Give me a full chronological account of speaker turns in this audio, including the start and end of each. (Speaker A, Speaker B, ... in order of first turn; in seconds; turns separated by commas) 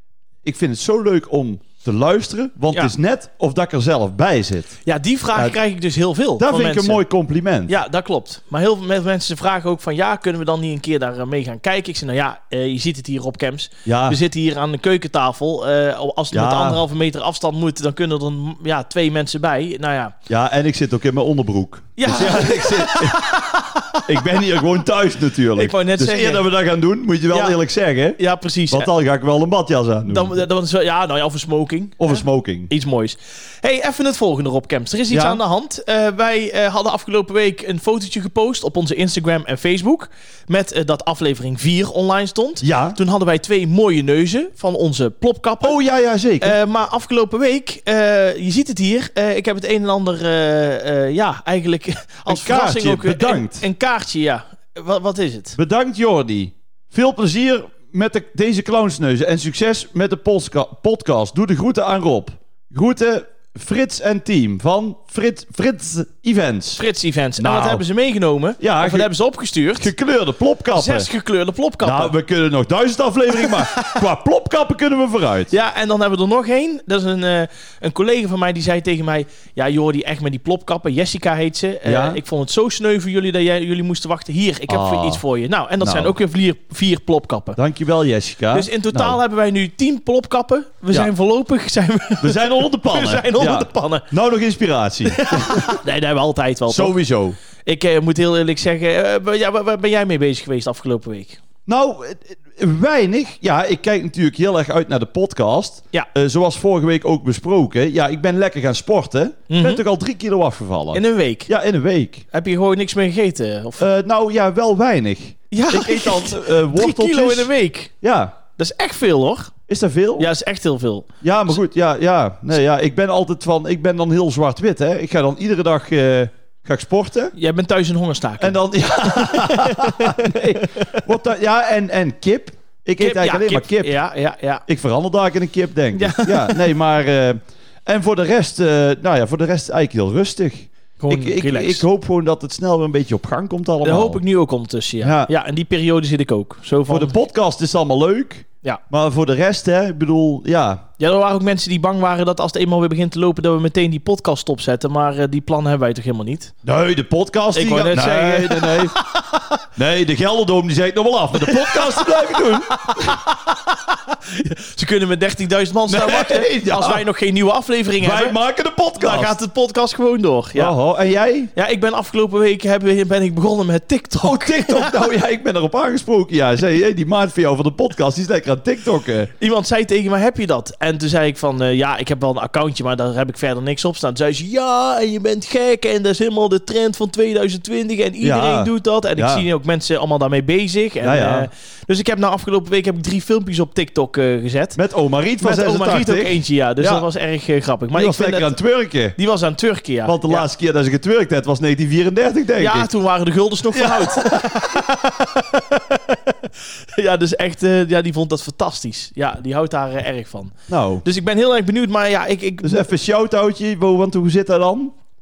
Speaker A: 0.4-4.8, Speaker B: 4.9-7.0, Speaker A: 6.4-7.8, Speaker B: 7.7-20.1, Speaker A: 13.9-14.2, Speaker A: 16.3-16.8, Speaker A: 20.3-23.3, Speaker B: 22.0-24.3, Speaker A: 24.1-30.4, Speaker B: 25.5-26.4, Speaker B: 27.3-27.6, Speaker B: 28.2-28.9, Speaker B: 30.1-45.8, Speaker A: 32.0-32.7, Speaker A: 35.1-35.4, Speaker A: 42.6-43.0, Speaker A: 45.6-46.6, Speaker B: 46.4-55.6, Speaker A: 52.3-53.7, Speaker A: 55.5-66.8, Speaker B: 66.8-69.9, Speaker A: 67.4-67.8, Speaker A: 68.6-69.1, Speaker A: 69.8-71.1, Speaker B: 70.7-72.1, Speaker A: 71.8-75.5, Speaker B: 73.4-74.0, Speaker B: 75.5-87.6, Speaker A: 81.8-82.2, Speaker A: 84.7-85.2, Speaker A: 85.8-86.1, Speaker A: 87.6-89.2, Speaker B: 88.5-94.1, Speaker A: 92.2-95.8, Speaker B: 95.1-97.0, Speaker A: 96.7-97.4, Speaker B: 97.6-101.4, Speaker A: 101.7-112.3, Speaker B: 109.5-109.8, Speaker B: 110.9-111.5, Speaker B: 112.3-113.9, Speaker A: 113.8-117.5, Speaker B: 115.5-117.9, Speaker A: 118.0-118.3, Speaker B: 118.6-119.5, Speaker A: 119.7-120.3, Speaker B: 120.2-121.5, Speaker A: 121.2-127.3, Speaker B: 127.3-131.1, Speaker A: 128.4-133.9, Speaker B: 133.0-134.7, Speaker A: 134.7-144.2, Speaker B: 135.9-136.6, Speaker B: 141.0-141.8, Speaker B: 143.8-147.2, Speaker A: 145.0-145.3, Speaker A: 146.9-150.8, Speaker B: 151.0-156.5, Speaker A: 156.6-158.9, Speaker B: 157.5-159.6, Speaker A: 159.8-163.2, Speaker B: 161.4-168.4, Speaker A: 165.9-167.1, Speaker A: 168.0-169.3, Speaker B: 169.0-170.8, Speaker A: 170.6-171.5, Speaker B: 171.6-175.0, Speaker A: 174.2-179.3, Speaker B: 179.4-194.8, Speaker A: 188.2-189.4, Speaker A: 191.0-191.5, Speaker A: 194.8-197.1, Speaker B: 195.4-198.5, Speaker A: 197.9-199.2, Speaker B: 199.2-200.5, Speaker A: 200.1-202.9, Speaker B: 202.6-212.9, Speaker A: 203.7-204.8, Speaker A: 210.7-211.1, Speaker A: 212.6-214.9